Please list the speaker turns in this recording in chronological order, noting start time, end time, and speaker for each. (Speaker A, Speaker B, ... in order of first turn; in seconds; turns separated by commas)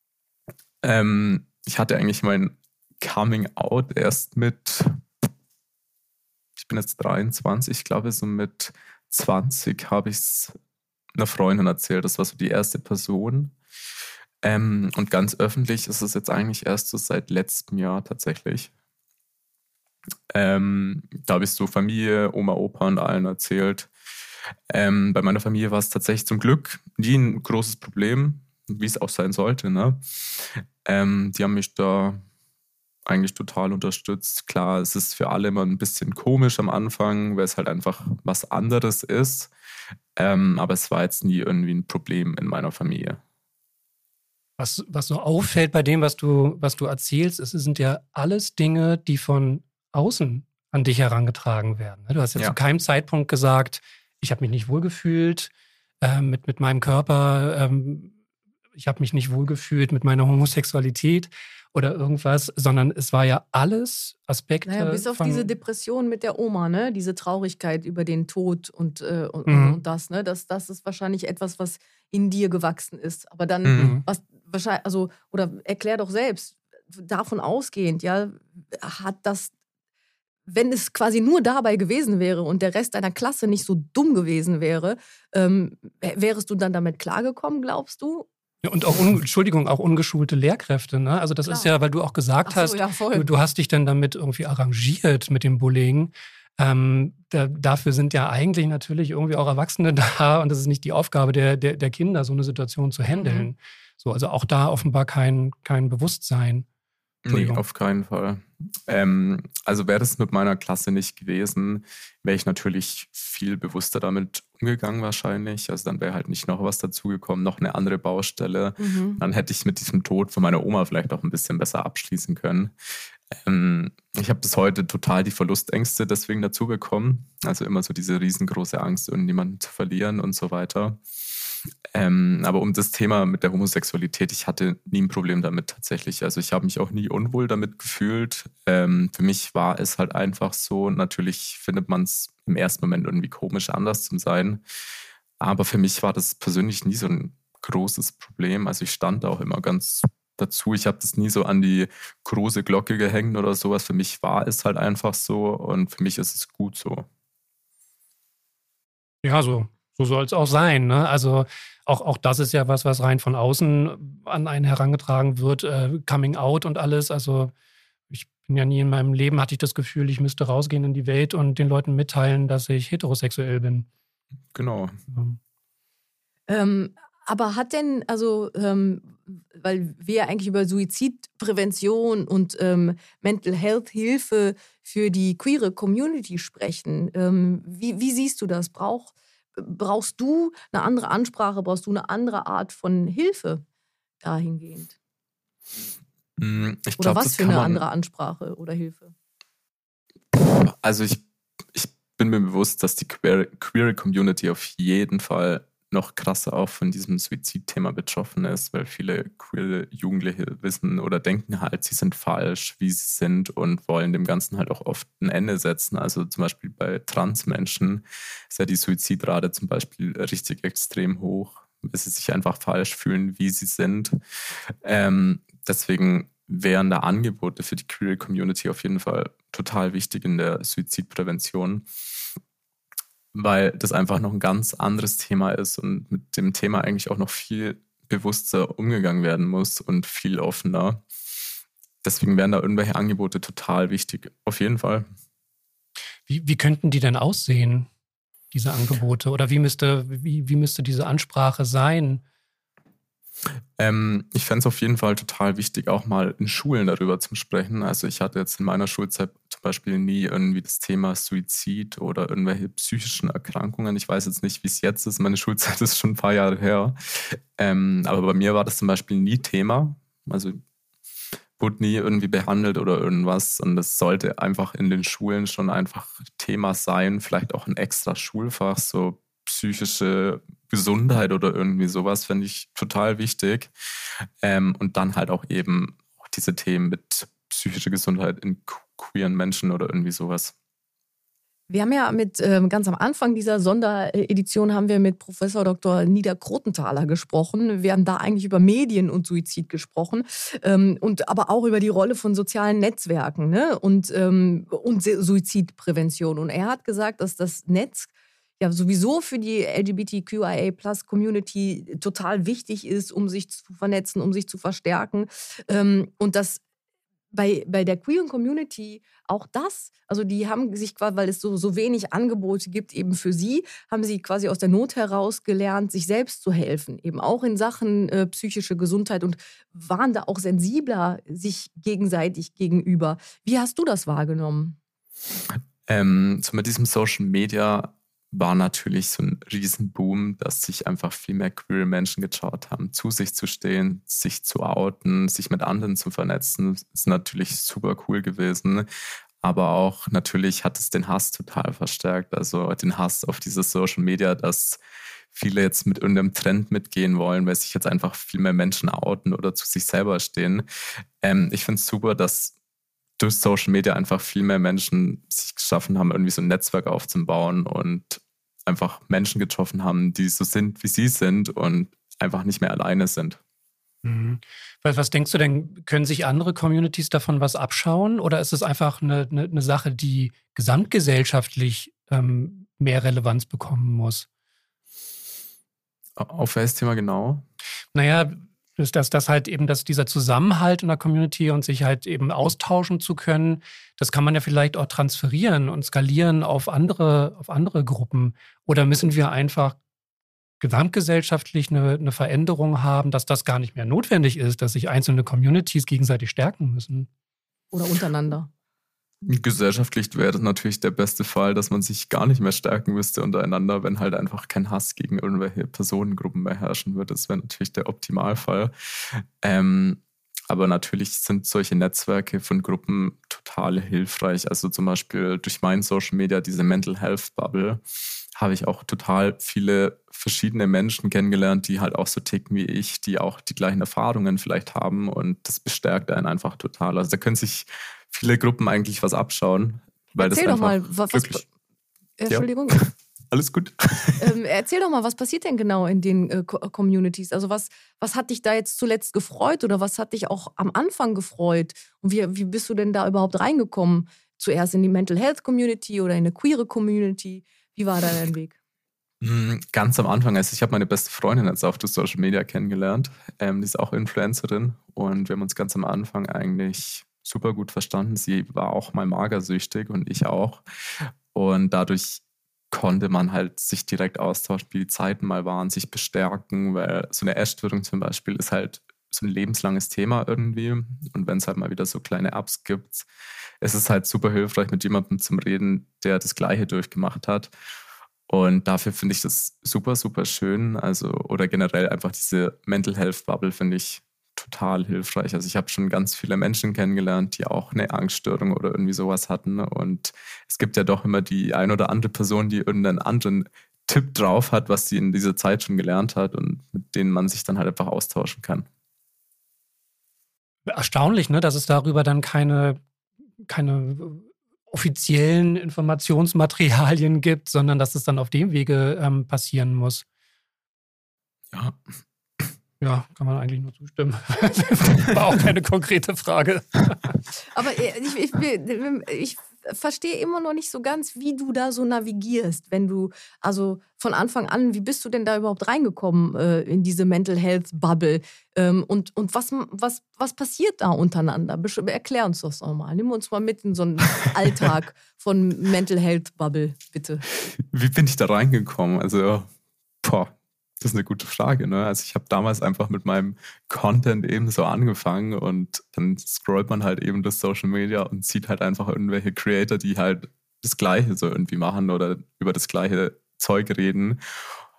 Speaker A: 0.8-5.0, Speaker A: 6.6-10.6, Speaker A: 11.1-13.5, Speaker A: 14.4-18.7, Speaker A: 20.3-23.9, Speaker A: 24.7-32.2, Speaker A: 33.0-39.5, Speaker A: 40.1-43.2, Speaker B: 44.6-55.5, Speaker B: 56.0-58.1, Speaker B: 58.8-65.5, Speaker C: 64.7-79.5, Speaker B: 69.5-69.8, Speaker A: 73.6-74.0, Speaker B: 73.8-74.0, Speaker C: 80.5-88.3, Speaker B: 88.6-106.7, Speaker C: 92.5-93.3, Speaker C: 103.2-103.5, Speaker A: 107.2-122.7, Speaker B: 107.3-107.6, Speaker C: 118.8-119.2, Speaker A: 123.3-131.0, Speaker A: 131.9-144.6, Speaker A: 145.4-157.1, Speaker B: 159.2-167.5, Speaker B: 168.1-173.9, Speaker A: 174.5-175.0, Speaker B: 175.1-175.4, Speaker C: 176.5-193.6, Speaker C: 194.2-194.9, Speaker A: 196.4-197.8, Speaker C: 197.0-199.1, Speaker A: 200.3-201.2, Speaker A: 201.7-224.2, Speaker A: 224.8-231.8, Speaker A: 233.3-241.0, Speaker A: 242.0-245.1, Speaker B: 246.3-247.9, Speaker B: 248.5-252.2, Speaker A: 253.8-270.6, Speaker A: 271.6-283.7, Speaker A: 284.4-290.5, Speaker C: 291.7-308.1, Speaker C: 308.6-316.6, Speaker C: 317.3-334.8, Speaker A: 335.9-348.9, Speaker A: 349.4-354.8, Speaker A: 355.3-360.6, Speaker A: 361.2-362.5, Speaker A: 363.2-373.4, Speaker B: 374.0-384.3, Speaker A: 386.2-387.4, Speaker B: 387.9-399.8, Speaker B: 400.6-407.1, Speaker C: 407.7-408.5, Speaker A: 409.2-427.8, Speaker A: 428.4-441.4, Speaker C: 440.1-441.4, Speaker C: 442.2-442.8, Speaker A: 442.3-444.3, Speaker C: 444.2-458.5, Speaker A: 459.2-470.6, Speaker A: 471.3-483.1, Speaker A: 483.6-487.5, Speaker A: 488.3-508.7, Speaker B: 510.7-512.8, Speaker B: 513.5-520.0, Speaker A: 521.5-521.8, Speaker B: 522.8-527.1, Speaker C: 527.5-547.2, Speaker A: 547.5-549.5, Speaker A: 550.0-564.2